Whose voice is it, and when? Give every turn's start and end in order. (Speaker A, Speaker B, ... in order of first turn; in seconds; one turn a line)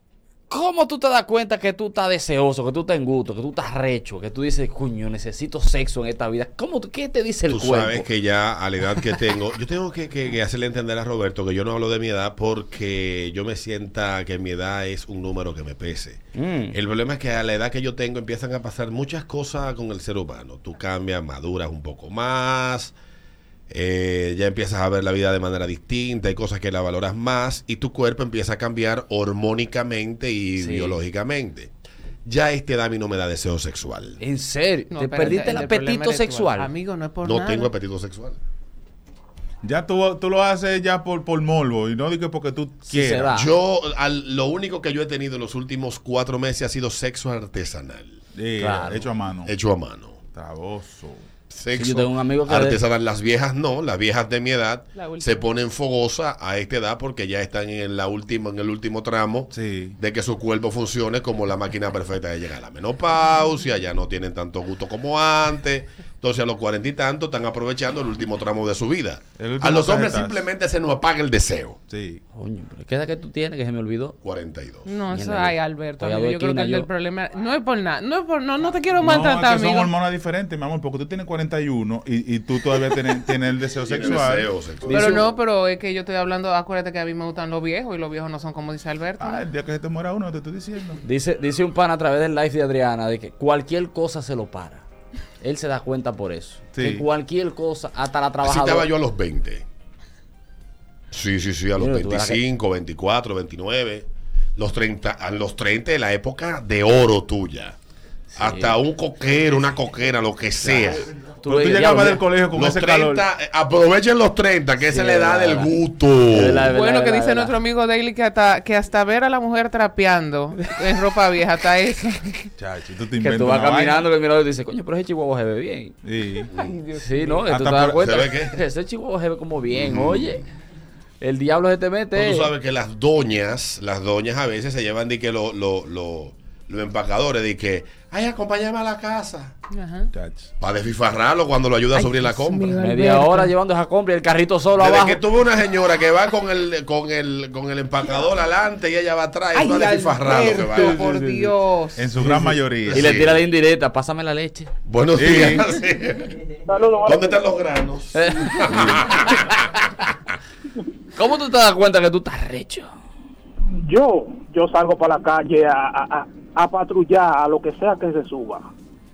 Speaker A: 0.5-8.1
Speaker B: 7.5-22.9
Speaker A: 16.4-16.8
Speaker B: 23.7-31.7
Speaker A: 30.6-31.0
Speaker B: 32.3-34.2
Speaker A: 34.2-36.7
Speaker C: 34.9-37.7
Speaker B: 37.2-38.4
Speaker D: 39.6-43.4
Speaker A: 42.9-43.5
Speaker B: 43.4-48.2
Speaker D: 48.3-49.5
Speaker A: 48.6-49.1
Speaker B: 49.5-50.2
Speaker D: 50.3-51.2
Speaker B: 51.5-71.8
Speaker A: 51.8-52.8
Speaker C: 55.0-55.5
Speaker D: 59.5-60.0
Speaker D: 69.4-70.4
Speaker D: 71.9-72.2
Speaker A: 72.3-74.2
Speaker B: 74.2-75.0
Speaker C: 74.8-79.9
Speaker A: 75.1-76.9
Speaker D: 79.0-85.2
Speaker B: 83.8-85.3
Speaker C: 84.9-89.4
Speaker D: 89.2-91.0
Speaker A: 91.0-94.8
Speaker A: 95.4-98.9
Speaker D: 96.8-97.0
Speaker B: 98.4-99.7
Speaker B: 101.1-107.8
Speaker A: 101.8-102.4
Speaker A: 108.3-108.8
Speaker B: 108.4-111.1
Speaker A: 110.6-110.9
Speaker A: 111.4-112.2
Speaker D: 111.4-113.3
Speaker B: 112.5-116.8
Speaker A: 114.8-117.6
Speaker C: 116.7-122.5
Speaker D: 122.6-124.1
Speaker A: 123.2-126.0
Speaker D: 126.0-126.5
Speaker B: 126.5-126.8
Speaker C: 126.6-127.5
Speaker A: 127.0-130.4
Speaker D: 127.5-128.1
Speaker B: 128.0-128.6
Speaker B: 129.7-130.5
Speaker A: 131.2-132.5
Speaker B: 132.1-139.5
Speaker C: 139.7-140.1
Speaker D: 140.1-140.5
Speaker B: 140.6-142.8
Speaker C: 141.9-143.5
Speaker A: 142.8-145.2
Speaker B: 144.8-151.1
Speaker C: 149.5-152.1
Speaker D: 150.7-153.3
Speaker A: 152.2-154.7
Speaker B: 152.9-153.4
Speaker B: 154.9-156.4
Speaker D: 155.2-155.7
Speaker E: 156.7-157.4
Speaker B: 157.0-159.4
Speaker A: 158.1-159.7
Speaker D: 158.7-159.1
Speaker A: 161.2-162.9
Speaker E: 163.9-168.7